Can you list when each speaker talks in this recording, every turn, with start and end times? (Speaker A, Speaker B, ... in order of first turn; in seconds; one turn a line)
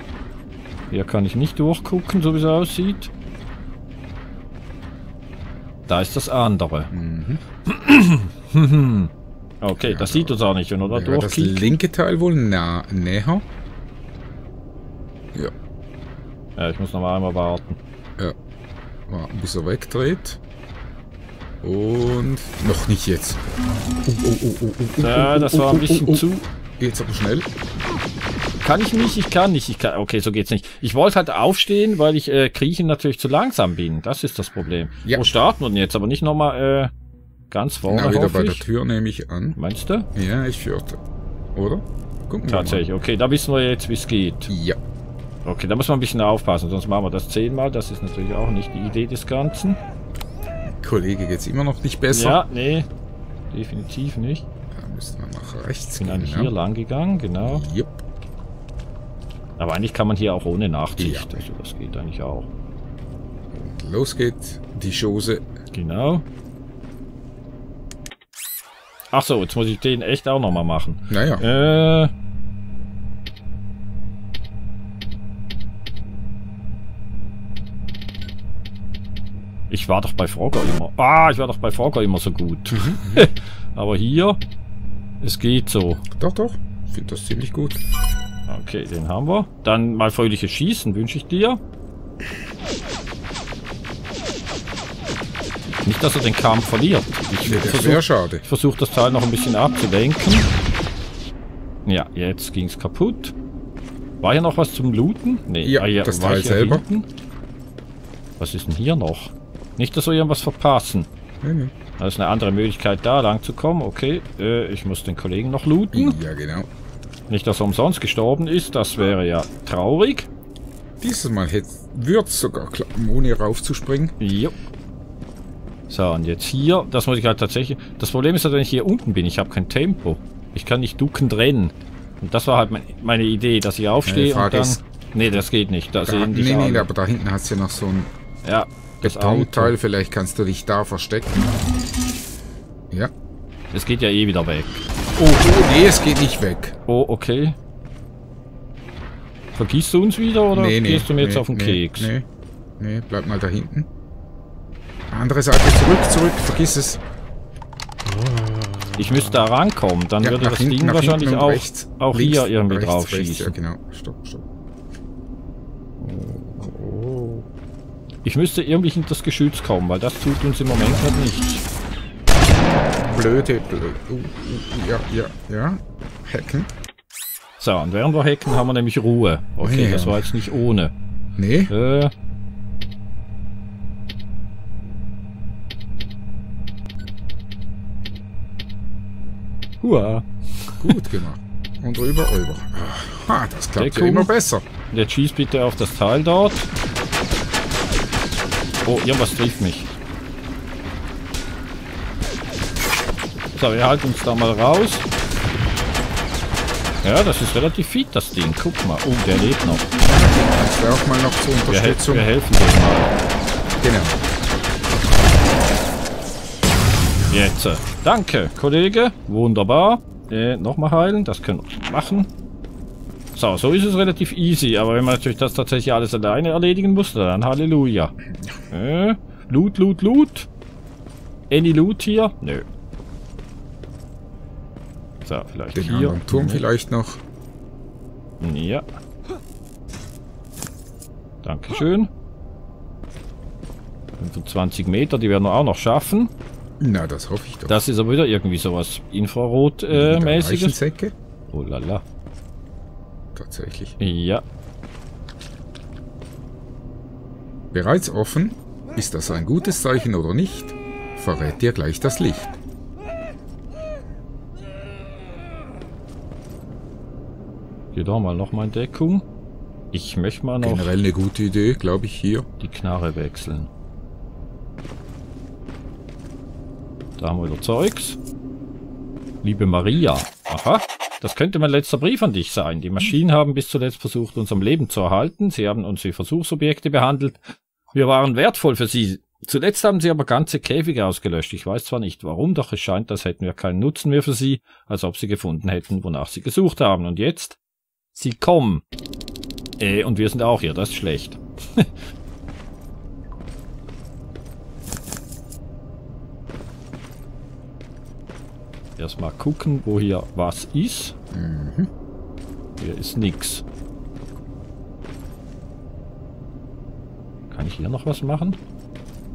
Speaker A: 0.9-3.1
Speaker A: 5.9-6.9
Speaker B: 6.9-7.4
Speaker A: 7.6-11.7
Speaker B: 9.7-10.4
Speaker B: 10.9-13.4
Speaker A: 16.6-17.8
Speaker B: 19.1-20.4
Speaker B: 21.6-23.4
Speaker B: 24.0-26.2
Speaker A: 25.0-26.5
Speaker B: 26.8-27.5
Speaker A: 28.6-36.9
Speaker A: 37.5-38.6
Speaker B: 37.9-39.6
Speaker A: 39.5-40.1
Speaker B: 40.1-41.0
Speaker B: 41.5-42.8
Speaker A: 42.5-44.5
Speaker B: 44.5-44.8
Speaker A: 45.4-49.8
Speaker B: 50.6-52.4
Speaker A: 52.1-52.9
Speaker A: 53.5-54.4
Speaker B: 54.7-56.5
Speaker A: 56.0-57.6
Speaker B: 57.4-58.0
Speaker A: 59.6-62.5
Speaker B: 61.0-61.4
Speaker B: 63.5-65.5
Speaker A: 65.7-66.2
Speaker A: 69.1-72.1
Speaker B: 71.1-71.4
Speaker A: 79.7-84.4
Speaker B: 82.7-83.3
Speaker A: 85.2-86.0
Speaker B: 86.1-87.8
Speaker A: 88.5-91.6
Speaker A: 95.8-100.5
Speaker B: 97.4-98.4
Speaker A: 101.8-103.3
Speaker A: 104.2-107.1
Speaker B: 105.6-106.8
Speaker A: 108.4-111.1
Speaker B: 111.4-111.7
Speaker A: 112.0-116.2
Speaker B: 115.9-116.7
Speaker A: 117.3-120.3
Speaker B: 121.0-124.1
Speaker A: 124.2-124.5
Speaker A: 125.9-136.9
Speaker B: 134.0-135.4
Speaker B: 136.0-138.1
Speaker A: 138.4-139.7
Speaker B: 139.0-141.6
Speaker A: 143.7-144.8
Speaker B: 145.2-146.8
Speaker A: 146.9-147.6
Speaker A: 149.5-152.1
Speaker B: 150.5-152.2
Speaker B: 152.8-153.9
Speaker B: 155.1-157.0
Speaker B: 158.0-159.4
Speaker A: 158.9-163.5
Speaker B: 160.2-164.4
Speaker B: 166.0-167.5
Speaker A: 168.2-171.6
Speaker B: 172.3-176.7
Speaker A: 177.6-180.9
Speaker B: 179.6-180.5
Speaker B: 181.3-181.7
Speaker A: 181.7-182.1
Speaker A: 189.8-191.0
Speaker B: 190.8-194.6
Speaker A: 193.8-194.3
Speaker A: 194.9-196.7
Speaker A: 198.8-199.9
Speaker A: 203.5-205.1
Speaker A: 207.0-209.9
Speaker B: 210.0-212.3
Speaker A: 211.7-213.1
Speaker B: 213.8-214.2
Speaker A: 217.3-222.3
Speaker A: 223.3-228.1
Speaker A: 228.7-230.5
Speaker A: 231.5-232.6
Speaker A: 235.2-236.6
Speaker B: 235.7-237.2
Speaker A: 238.4-238.8
Speaker A: 241.4-242.1
Speaker A: 244.2-246.3
Speaker B: 246.8-247.8
Speaker A: 247.7-250.8
Speaker B: 249.9-251.1
Speaker A: 251.5-252.0
Speaker B: 253.3-253.9
Speaker A: 254.0-254.4
Speaker B: 257.7-262.5
Speaker A: 267.9-269.3
Speaker A: 269.9-270.9
Speaker B: 270.6-272.4
Speaker A: 272.6-273.7
Speaker A: 277.2-278.2
Speaker A: 279.4-297.6
Speaker A: 298.1-298.8
Speaker A: 299.8-301.9
Speaker A: 309.0-311.1
Speaker B: 311.3-311.9
Speaker A: 312.8-313.6
Speaker A: 317.5-318.6